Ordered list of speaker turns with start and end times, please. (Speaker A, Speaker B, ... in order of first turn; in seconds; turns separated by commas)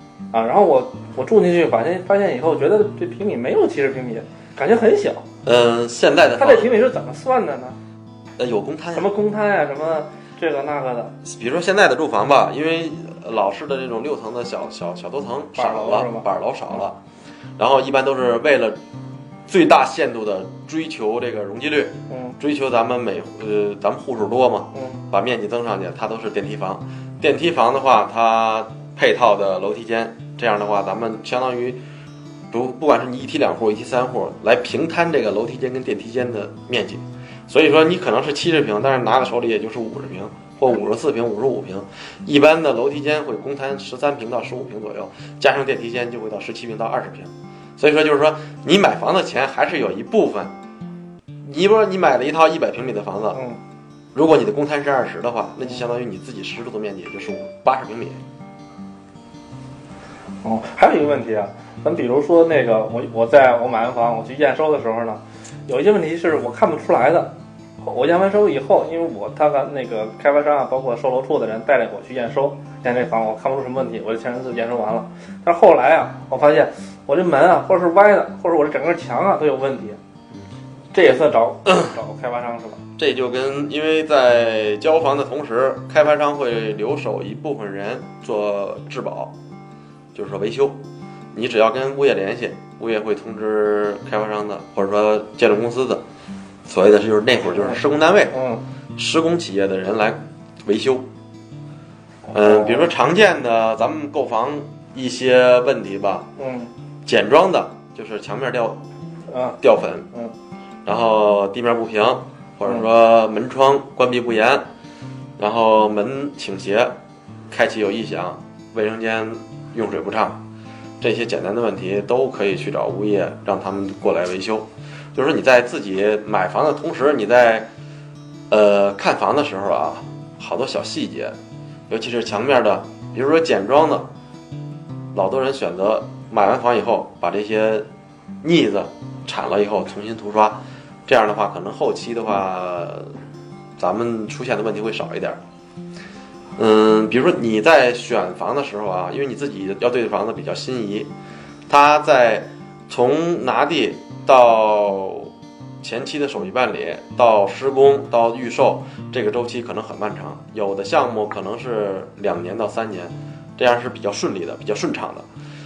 Speaker A: 0.3-5.2, Speaker B: 5.4-6.7, Speaker A: 6.4-7.8, Speaker B: 8.4-9.1, Speaker A: 8.9-11.1, Speaker B: 11.2-17.0, Speaker A: 15.6-16.2, Speaker B: 17.6-18.8, Speaker B: 19.5-31.8, Speaker A: 22.1-22.4, Speaker A: 24.7-25.0, Speaker B: 32.5-50.5, Speaker B: 51.4-53.4, Speaker B: 54.1-58.2, Speaker A: 60.4-80.0, Speaker A: 80.9-82.8, Speaker B: 83.0-89.3, Speaker B: 90.1-90.8, Speaker B: 91.3-96.0, Speaker B: 96.6-98.4, Speaker A: 98.3-98.6, Speaker B: 99.0-101.1, Speaker A: 102.3-102.9, Speaker B: 102.3-106.3, Speaker A: 106.4-106.7, Speaker B: 107.0-108.8, Speaker A: 109.3-109.6, Speaker B: 109.6-110.1, Speaker B: 110.8-114.7, Speaker B: 115.4-116.9, Speaker B: 117.5-120.4, Speaker B: 121.0-127.7, Speaker B: 128.5-131.3, Speaker B: 131.9-134.1, Speaker B: 135.1-137.9, Speaker B: 138.4-143.1, Speaker B: 143.8-145.4, Speaker B: 146.6-151.1, Speaker B: 151.7-155.3, Speaker B: 155.8-165.3